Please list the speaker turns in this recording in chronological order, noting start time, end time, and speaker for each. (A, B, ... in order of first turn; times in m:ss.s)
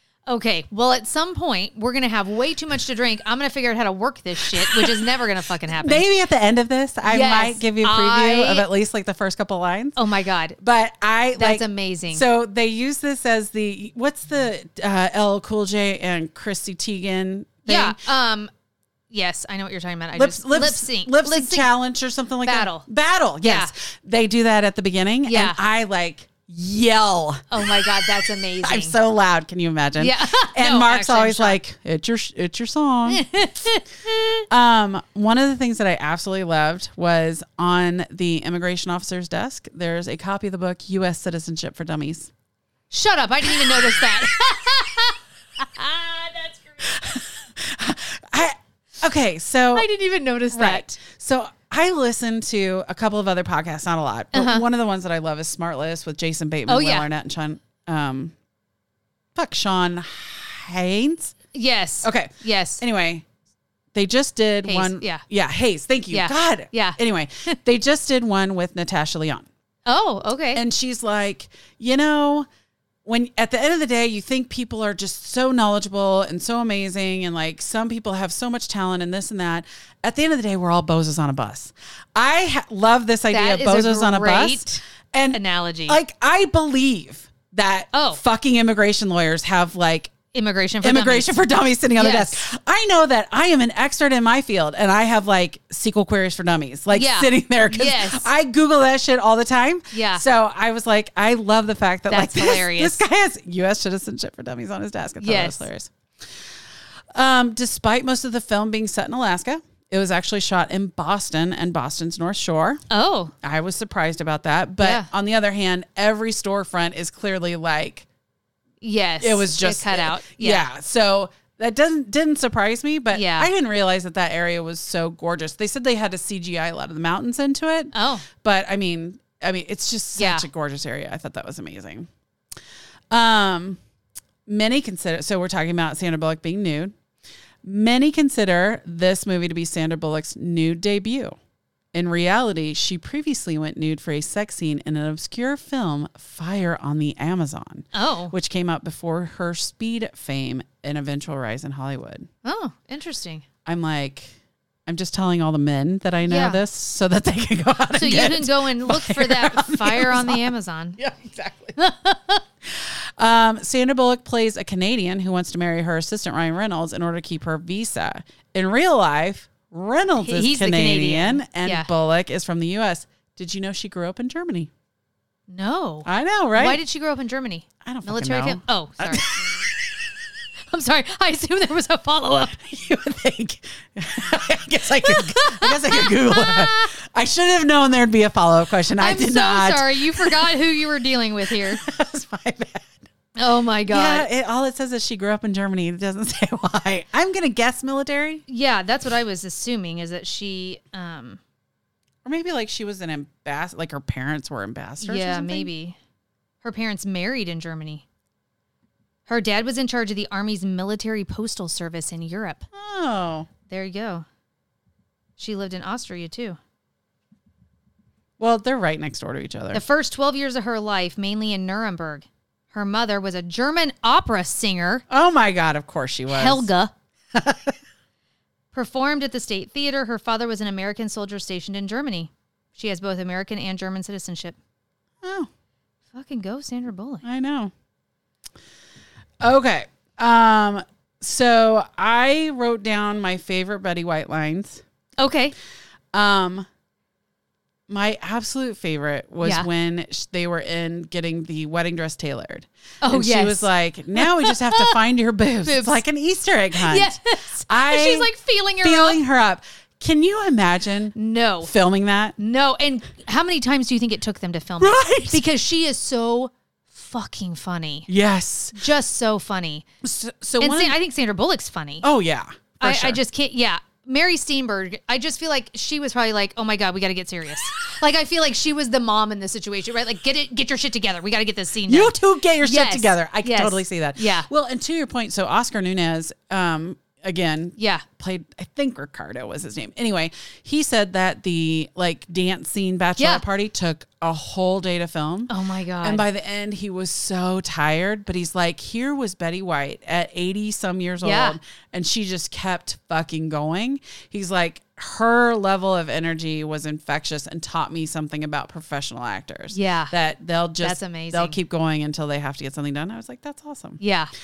0:00.3-0:06.0 A
0:04.6-0:05.1 B
0:05.7-0:10.0 B
0:07.1-0:08.7 A
0:10.0-0:10.6 A
0:10.6-0:18.0 B
0:11.4-0:12.2 A
0:17.7-0:18.5 A
0:19.1-0:21.7 A
0:20.1-0:33.2 B
0:22.4-0:22.9 A
0:23.4-0:23.7 A
0:25.3-0:25.6 A
0:27.5-0:29.0 A
0:30.0-0:31.6 A
0:33.1-0:34.4 A
0:34.5-0:42.3 B
0:42.9-0:47.0 A
0:46.8-0:49.9 B
0:49.7-0:51.0 A
0:50.5-0:58.3 B
0:54.3-0:54.6 A
0:56.7-0:57.1 A
0:59.4-1:01.4 B
1:01.5-1:02.8 A
1:02.0-1:03.2 B
1:04.0-1:09.5 B
1:04.6-1:05.2 A
1:06.1-1:07.6 A
1:09.9-1:10.6 A
1:10.5-1:12.5 B
1:13.0-1:30.2 B
1:23.3-1:26.0 A
1:27.9-1:28.2 A
1:30.3-1:31.4 A
1:30.8-1:45.9 B
1:32.0-1:32.4 A
1:36.9-1:38.3 A
1:39.9-1:40.2 A
1:42.1-1:43.0 A
1:45.2-1:45.7 A
1:47.2-1:52.8 B
1:52.9-1:53.3 A
1:53.4-1:58.1 B
1:54.8-1:55.1 A
1:58.8-2:00.7 A
1:59.2-2:12.1 B
2:03.1-2:03.5 A
2:07.9-2:08.2 A
2:10.2-2:10.5 A
2:13.1-2:13.8 B
2:14.5-2:17.0 B
2:17.6-2:21.4 B
2:21.9-2:32.3 B
2:27.9-2:28.3 A
2:32.4-2:33.4 A
2:33.7-2:34.4 B
2:34.9-2:41.8 B
2:36.3-2:36.6 A
2:38.0-2:41.0 A
2:41.8-2:42.4 A
2:42.7-2:54.7 B
2:50.2-2:51.9 A
2:55.5-2:59.4 A
2:56.0-2:56.8 B
2:57.8-2:59.6 B
3:00.7-3:02.8 A
3:02.7-3:10.6 B
3:05.0-3:06.9 A
3:09.0-3:11.8 A
3:11.5-3:13.1 B
3:13.4-3:14.3 A
3:13.9-3:18.4 B
3:18.5-3:21.4 A
3:22.2-3:25.7 B
3:25.0-3:26.0 A
3:26.6-3:28.0 A
3:29.3-3:32.7 A
3:32.7-3:33.5 B
3:33.7-3:34.2 A
3:35.4-3:36.6 A
3:38.4-3:39.8 B
3:39.7-3:45.0 A
3:45.1-3:46.7 B
3:46.3-3:46.9 A
3:47.3-3:47.8 B
3:48.7-3:54.6 A
3:55.2-3:55.5 B
3:56.1-3:57.2 A
3:57.2-3:57.7 B
3:59.4-4:04.8 B
4:05.2-4:05.6 A
4:06.1-4:06.7 B
4:07.9-4:18.3 B
4:09.4-4:09.7 A
4:13.0-4:15.0 A
4:15.6-4:16.0 A
4:16.8-4:19.2 A
4:18.8-4:22.4 B
4:21.2-4:21.7 A
4:22.4-4:28.1 A
4:24.8-4:25.4 B
4:28.1-4:28.8 B
4:28.8-4:29.8 A
4:30.0-4:31.0 B
4:30.6-4:32.0 A
4:32.0-4:33.2 B
4:32.8-4:44.5 A
4:41.9-5:14.0 B
4:47.8-4:48.0 A
4:53.2-4:53.4 A
4:55.5-4:56.2 A
5:01.2-5:01.6 A
5:09.7-5:10.1 A
5:10.8-5:11.6 A
5:14.0-5:14.3 A